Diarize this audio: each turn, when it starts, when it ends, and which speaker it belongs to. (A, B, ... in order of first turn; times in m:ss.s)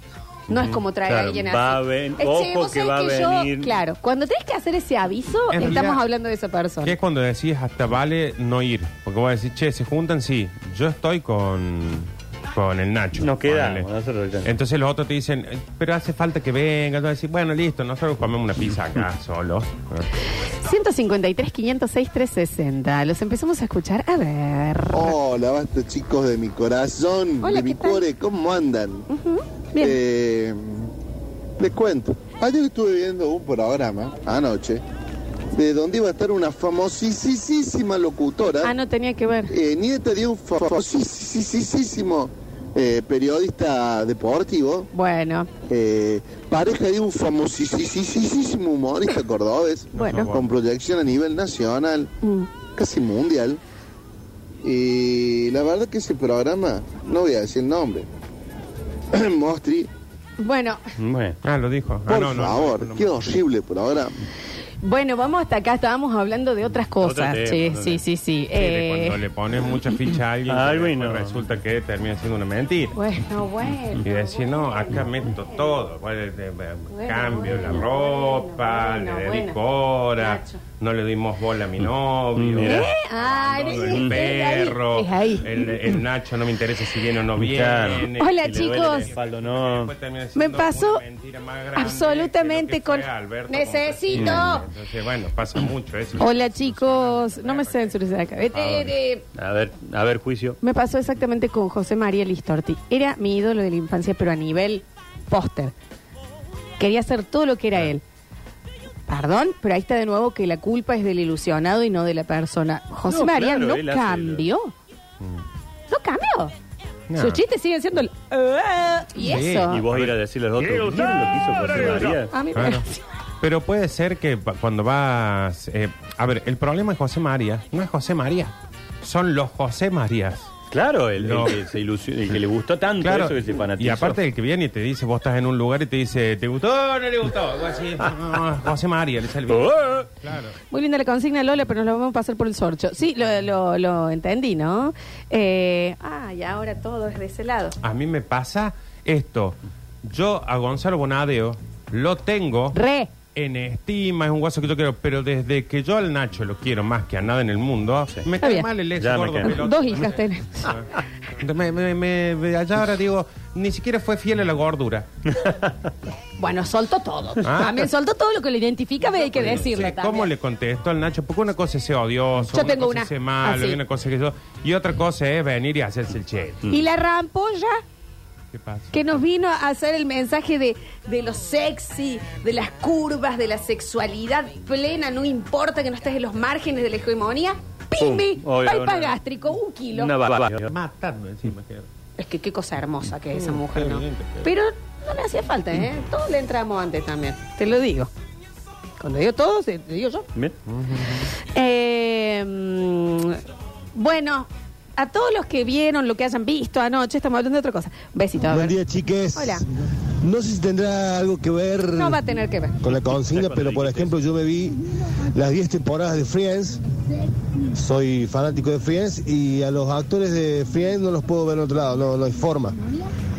0:00.5-0:06.9 A
0:00.5-0:03.7 B
0:05.5-0:06.0 C
0:06.8-0:13.9 C
0:13.2-0:14.5 B
0:14.4-0:20.1 C
0:20.6-0:25.2 A
0:24.9-0:29.1 D
0:27.4-0:28.0 A
0:29.1-0:30.0 A
0:29.8-0:30.9 D
0:31.6-0:34.8 D
0:35.5-0:38.7 D
0:38.6-0:39.5 A
0:39.5-0:44.9 D
0:44.9-0:45.5 A
0:45.7-0:52.1 D
0:49.9-0:50.5 C
0:49.9-0:50.3 A
0:52.2-0:52.5 A
0:52.7-0:53.6 D
0:54.6-0:58.1 D
0:59.1-0:59.9 D
1:00.4-1:00.8 A
1:01.0-1:01.4 B
1:01.4-1:03.3 C
1:02.1-1:04.1 D
1:04.8-1:09.2 A
1:07.0-1:08.0 B
1:08.5-1:13.0 C
1:10.5-1:11.4 B
1:12.9-1:15.7 A
1:14.0-1:38.9 C
1:16.9-1:19.6 A
1:20.2-1:20.6 A
1:22.4-1:22.9 B
1:22.6-1:25.5 A
1:23.9-1:24.2 B
1:27.4-1:29.9 B
1:28.2-1:29.1 A
1:30.3-1:31.0 A
1:31.8-1:34.6 A
1:34.1-1:34.4 B
1:36.2-1:39.2 A
1:39.3-1:40.6 B
1:40.6-1:45.7 A
1:46.8-1:48.0 A
1:49.1-1:54.7 A
1:53.1-1:54.5 B
1:55.9-1:56.5 A
1:57.1-1:57.4 C
1:57.2-1:59.8 A
1:59.2-2:01.1 C
1:59.7-2:02.3 B
2:02.3-2:03.0 A
2:02.5-2:02.8 C
2:03.4-2:10.5 C
2:10.7-2:14.2 B
2:11.2-2:11.6 C
2:13.0-2:20.6 C
2:19.5-2:20.1 B
2:20.7-2:27.8 A
2:27.8-2:32.8 C
2:32.7-2:33.1 A
2:33.3-2:40.9 C
2:38.4-2:38.7 A
2:39.0-2:39.6 B
2:39.4-2:40.7 A
2:41.4-2:45.1 C
2:45.3-2:45.9 B
2:46.4-2:50.3 A
2:47.4-2:47.8 C
2:49.3-2:56.6 C
2:52.5-2:53.8 A
2:56.7-2:57.8 A
2:58.5-2:59.2 C
2:58.9-3:10.1 A
3:08.0-3:09.2 B
3:09.9-3:10.7 B
3:10.6-3:11.9 C
3:12.2-3:18.1 A
3:13.3-3:14.5 C
3:19.0-3:20.2 A
3:20.7-3:21.3 C
3:21.4-3:23.4 A
3:23.9-3:28.8 A
3:28.4-3:29.6 E
3:29.3-3:29.6 A
3:30.2-3:32.2 E
3:31.9-3:32.8 A
3:32.8-3:34.8 E
3:32.9-3:34.1 B
3:35.3-3:36.8 E
3:37.7-3:42.8 E